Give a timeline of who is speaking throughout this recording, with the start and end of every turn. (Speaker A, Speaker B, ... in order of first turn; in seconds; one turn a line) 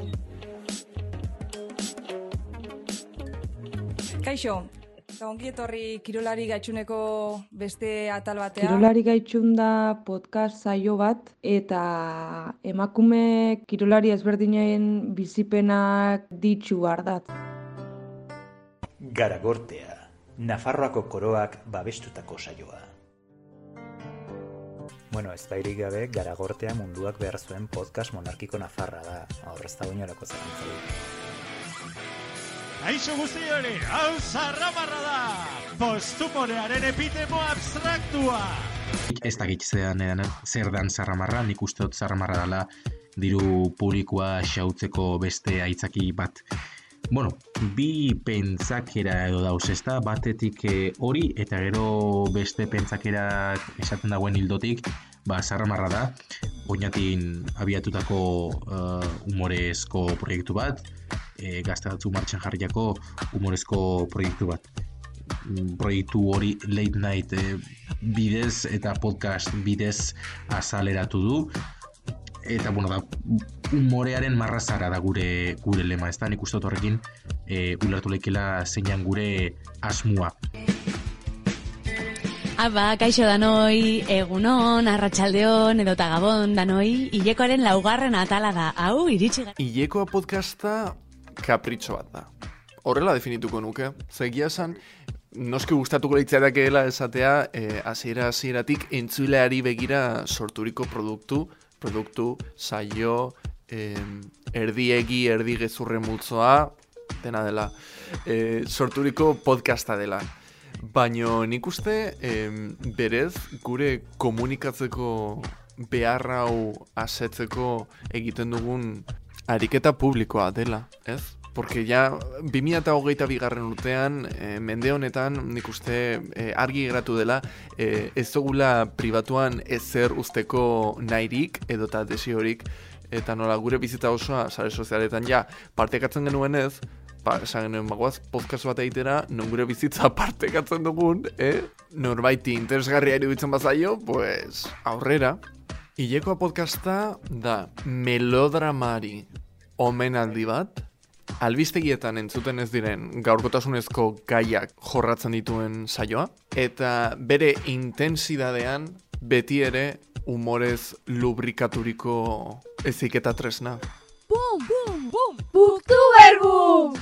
Speaker A: 4.2-8.9
Speaker B: 8.5-17.3
Speaker C: 19.0-22.9
Speaker C: 25.1-30.9
Speaker D: 32.9-38.6
Speaker E: 39.0-46.4
Speaker E: 47.1-56.1
Speaker E: 56.6-60.8
Speaker E: 61.4-64.6
Speaker E: 65.4-71.5
Speaker E: 72.4-80.3
Speaker F: 82.6-89.5
Speaker G: 89.5-92.3
Speaker G: 92.8-94.8
Speaker G: 95.3-107.7
Speaker G: 108.2-145.4
Speaker G: 146.0-150.8
Speaker G: 151.4-163.8